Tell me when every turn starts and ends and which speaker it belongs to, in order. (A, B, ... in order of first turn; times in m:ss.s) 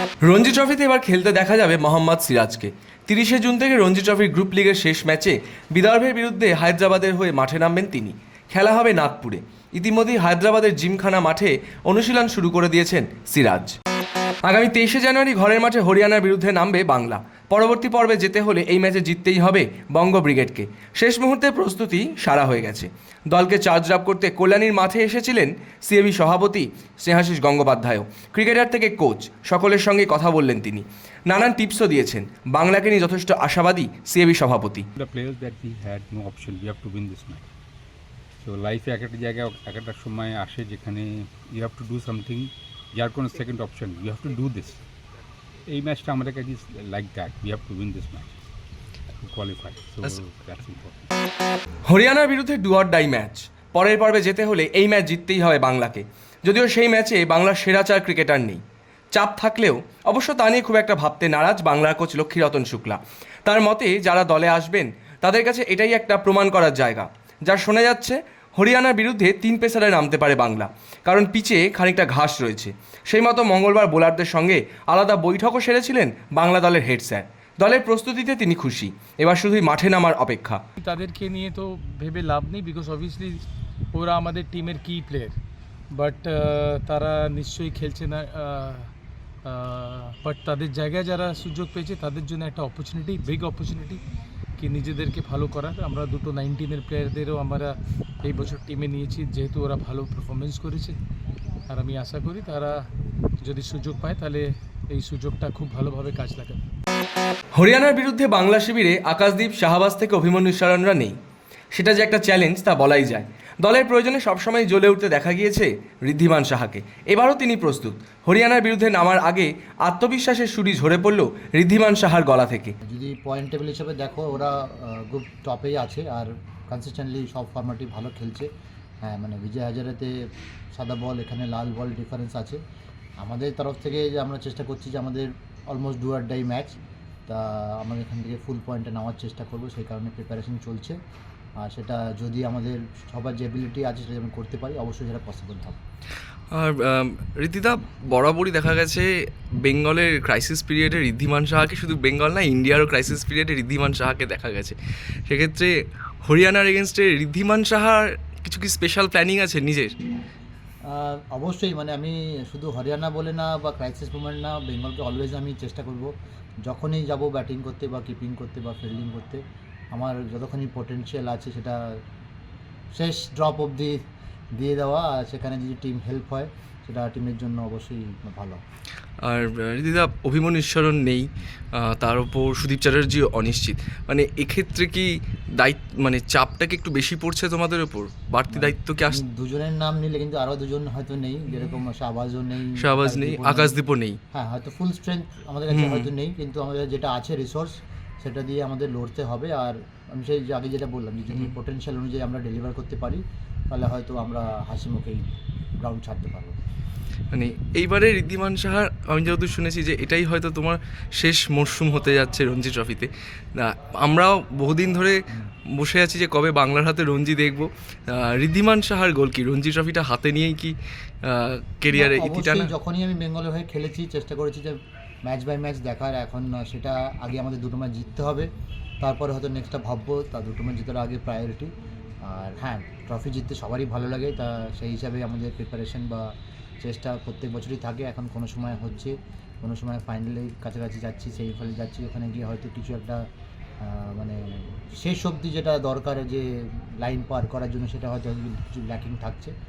0:00.2-0:13.7 A
0:14.4-0:34.8 A
0:34.9-0:37.5 B
0:38.4-0:44.8 B
0:45.6-0:48.4 B
0:49.2-0:51.1 B
0:51.9-0:58.6 A
0:59.1-1:20.6 A
1:20.8-1:23.3 C
1:23.9-1:25.4 C
1:26.0-1:28.8 C
1:29.5-1:34.0 C
1:34.6-1:37.7 C
1:38.2-1:40.9 C
1:41.7-1:42.7 C
1:43.4-1:46.6 C
1:47.5-1:51.1 A
1:51.7-2:02.7 A
2:02.9-2:04.5 D
2:05.1-2:08.4 D
2:09.0-2:10.1 D
2:10.8-2:12.6 D
2:13.2-2:16.7 D
2:17.3-2:21.0 D
2:21.6-2:25.8 D
2:26.5-2:34.8 A
2:35.3-2:40.0 A
2:40.9-2:46.1 D
2:46.6-2:49.4 D
2:49.9-2:51.8 D
2:53.0-2:53.9 D
2:54.6-2:58.6 D
2:59.2-3:09.2 A
3:08.5-3:13.8 D
3:11.5-3:11.8 A
3:12.8-3:14.2 A
3:14.3-3:25.2 D
3:15.7-3:16.1 A
3:25.8-3:26.5 D
3:27.3-3:42.7 A
3:41.9-3:44.7 D
3:45.3-3:48.5 D
3:49.0-3:51.7 D
3:52.3-3:56.2 D
3:56.8-4:03.2 D
4:03.9-4:04.4 D
4:05.0-4:06.4 D
4:07.0-4:09.5 D